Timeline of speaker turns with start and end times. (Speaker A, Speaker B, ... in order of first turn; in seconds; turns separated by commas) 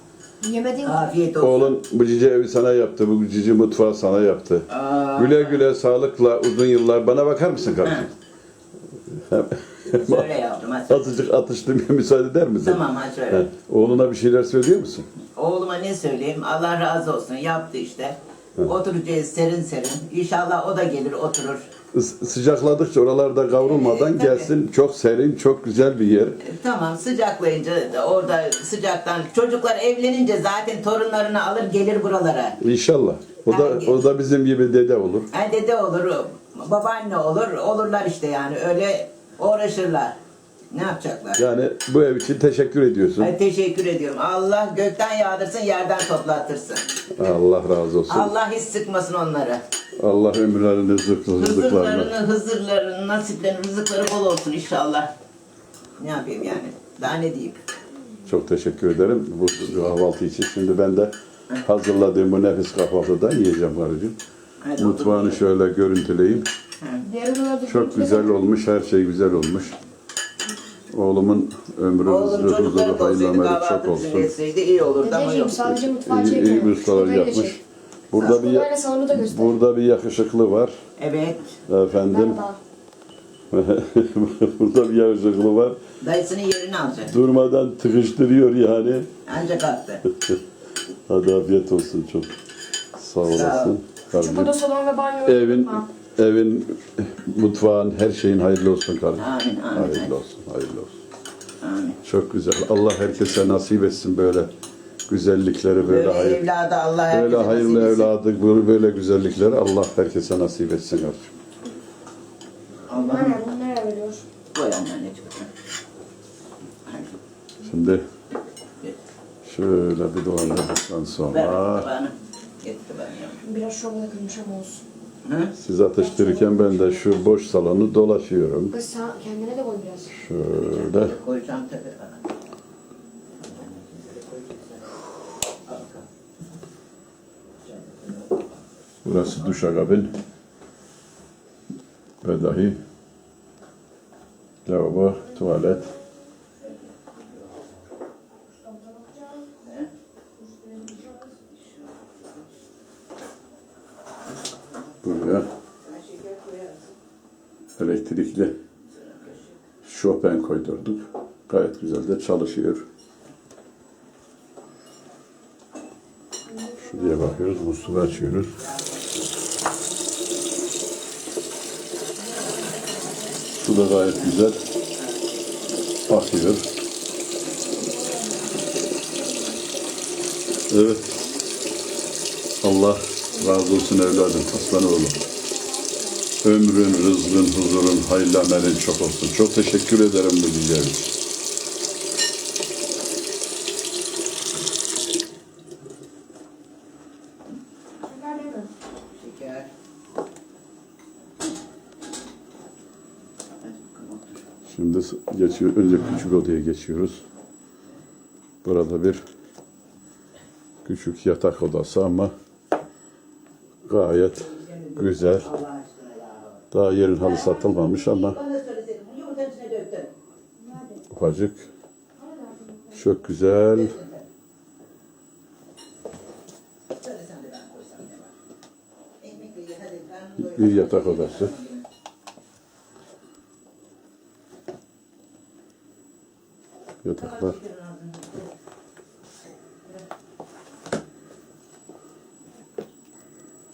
Speaker A: 0.4-1.0, Speaker B: 0.8-1.8, Speaker C: 1.4-8.1, Speaker B: 4.7-5.6, Speaker C: 9.1-10.3, Speaker B: 9.9-11.1, Speaker C: 10.9-15.1, Speaker B: 12.6-13.5, Speaker B: 15.3-21.7, Speaker C: 21.9-26.4, Speaker B: 23.6-24.5, Speaker B: 26.4-32.6, Speaker C: 32.6-35.3, Speaker B: 33.5-34.0, Speaker B: 35.3-40.1, Speaker B: 40.7-41.4, Speaker C: 41.4-43.3, Speaker B: 43.2-46.8, Speaker C: 47.1-48.3, Speaker B: 48.1-49.6, Speaker C: 50.0-52.1, Speaker B: 51.4-55.1, Speaker B: 56.0-57.6, Speaker C: 58.2-64.2, Speaker B: 64.6-65.4, Speaker C: 64.8-66.5, Speaker A: 67.0-68.4, Speaker C: 67.6-69.7, Speaker C: 70.9-74.3, Speaker B: 72.0-75.7, Speaker A: 75.0-77.5, Speaker C: 76.0-80.7, Speaker A: 78.2-79.5, Speaker B: 81.0-81.6, Speaker C: 81.7-82.4, Speaker A: 82.0-82.6, Speaker C: 83.5-85.8, Speaker B: 86.0-87.1, Speaker C: 87.0-89.1, Speaker B: 89.2-90.0, Speaker C: 91.1-92.3, Speaker C: 92.9-94.5, Speaker B: 93.2-93.8, Speaker A: 94.1-95.8, Speaker C: 95.2-101.0, Speaker B: 99.2-100.2, Speaker B: 101.6-102.0, Speaker C: 102.0-104.5, Speaker C: 105.1-106.4, Speaker B: 105.8-108.1, Speaker C: 107.1-111.3, Speaker B: 112.9-113.4, Speaker A: 112.9-114.2, Speaker B: 114.5-115.5, Speaker B: 116.8-117.2, Speaker C: 117.6-118.0, Speaker C: 119.4-121.9, Speaker B: 121.3-123.4, Speaker A: 123.4-124.8, Speaker B: 125.2-125.5, Speaker C: 125.5-128.7, Speaker A: 126.1-126.9, Speaker A: 128.7-130.2, Speaker C: 130.1-131.1, Speaker B: 130.5-132.2, Speaker B: 133.5-134.6, Speaker B: 135.7-136.0, Speaker B: 137.8-138.1, Speaker C: 139.0-140.1, Speaker C: 142.2-142.8, Speaker C: 144.6-145.9, Speaker A: 148.7-149.4, Speaker A: 150.5-151.2, Speaker C: 155.0-155.5, Speaker B: 155.8-156.9, Speaker C: 157.8-158.5, Speaker B: 159.1-159.4, Speaker C: 159.8-162.8, Speaker A: 166.5-167.4, Speaker C: 166.7-168.6, Speaker C: 173.5-174.6, Speaker C: 176.1-176.7, Speaker A: 177.8-178.4, Speaker C: 180.7-181.0, Speaker C: 182.6-185.2, Speaker A: 183.3-186.3, Speaker C: 186.4-191.1, Speaker A: 198.0-198.7, Speaker B: 199.1-199.7, Speaker B: 203.6-204.4, Speaker C: 204.7-207.2, Speaker C: 208.6-209.2, Speaker C: 210.8-212.3, Speaker C: 213.8-215.5, Speaker B: 214.4-216.6, Speaker C: 216.7-218.4, Speaker B: 217.2-220.1, Speaker C: 221.1-221.7, Speaker A: 222.2-223.1, Speaker C: 222.9-223.9, Speaker B: 223.7-224.2, Speaker B: 226.9-228.3, Speaker B: 229.2-231.8, Speaker C: 230.4-231.5, Speaker C: 237.0-237.6, Speaker B: 237.2-238.5